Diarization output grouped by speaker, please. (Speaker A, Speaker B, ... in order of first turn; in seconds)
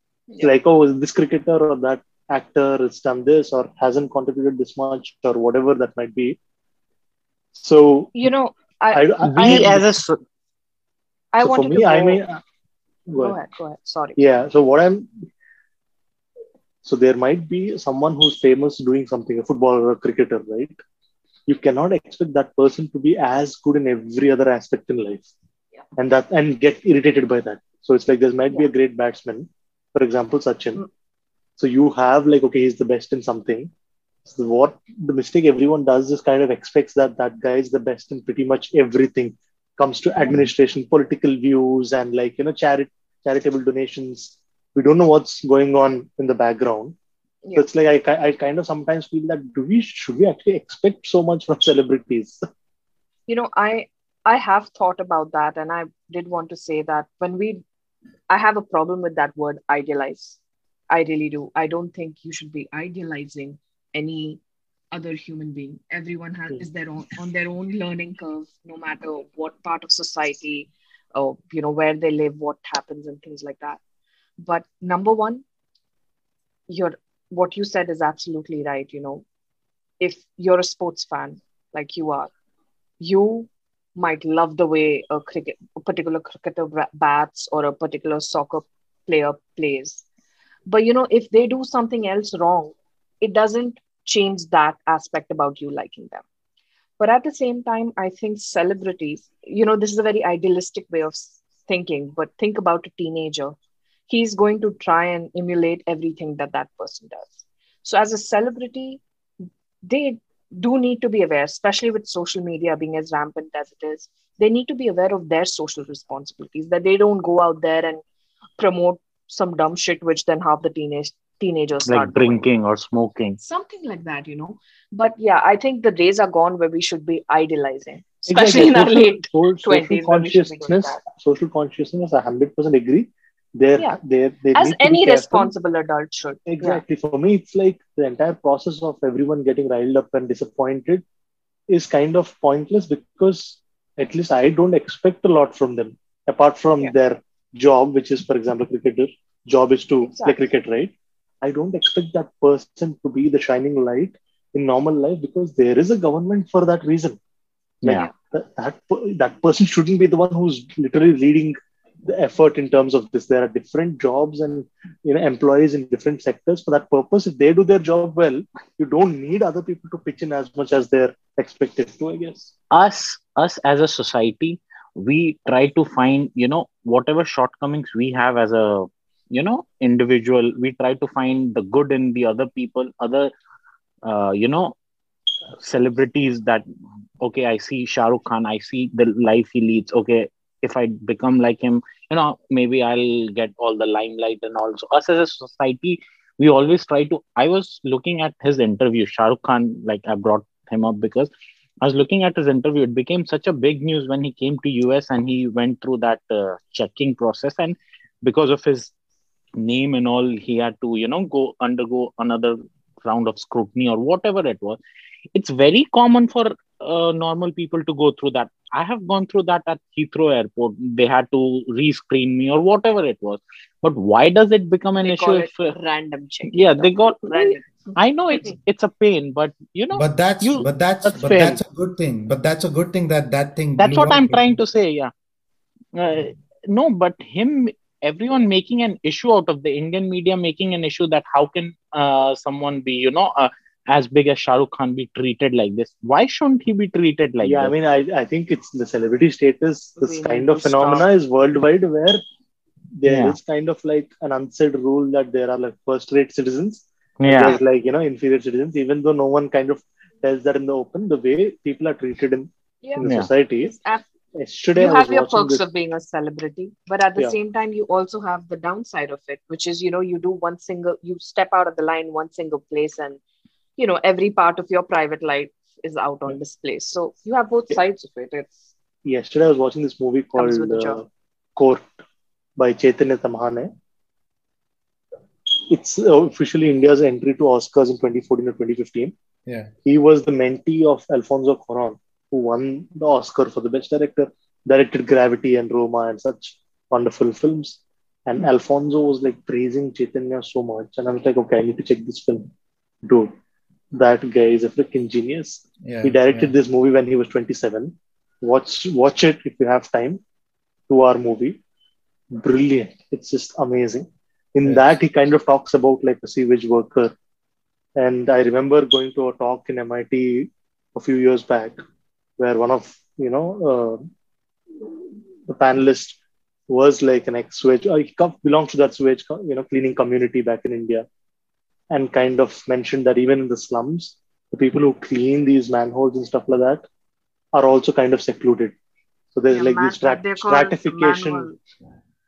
Speaker A: 0.4-6.4, 7.5-8.2, 8.9-9.9, 11.4-12.4, 13.1-13.3, 14.2-15.2, 16.8-20.8, 21.5-25.3, 26.0-30.8, 31.6-33.7, 34.2-46.9, 47.5-52.4, 128.3-135.5, 136.5-141.0, 141.7-157.2, 157.8-172.5, 247.4-252.2, 252.9-263.7, 264.3-265.6, 279.1-281.9, 282.6-283.7, 285.5-289.1, 289.8-302.5, 303.0-303.3, 303.9-310.2, 310.9-311.6, 312.3-317.1, 317.9-321.8, 322.4-324.0, 324.8-326.2, 326.7-331.1, 331.9-336.8, 337.5-338.8, 339.3-341.5
Speaker B: 8.1-9.8, 11.3-12.2, 13.1-14.2, 53.3-57.6, 58.3-60.4, 60.9-64.4, 64.9-73.8, 74.4-75.4, 76.7-79.2, 80.0-82.3, 83.0-90.0, 90.7-96.2, 97.0-103.5, 104.1-109.0, 109.8-118.0, 118.6-122.4, 123.4-131.0, 134.5-136.8, 150.0-150.4, 225.0-228.5, 250.0-251.1, 262.8-264.1, 264.8-273.2, 273.8-278.6, 280.3-281.0, 339.5-341.6
Speaker C: 9.2-10.2, 121.9-123.4, 157.8-158.1, 172.7-183.3, 184.0-184.7, 185.6-186.6, 187.2-201.3, 201.8-208.9, 209.6-214.8, 215.3-225.7, 226.5-231.6, 233.8-235.1, 235.9-247.7, 253.0-253.3, 257.2-257.6
Speaker D: 229.9-234.6, 289.4-289.7, 305.8-306.5, 314.6-315.0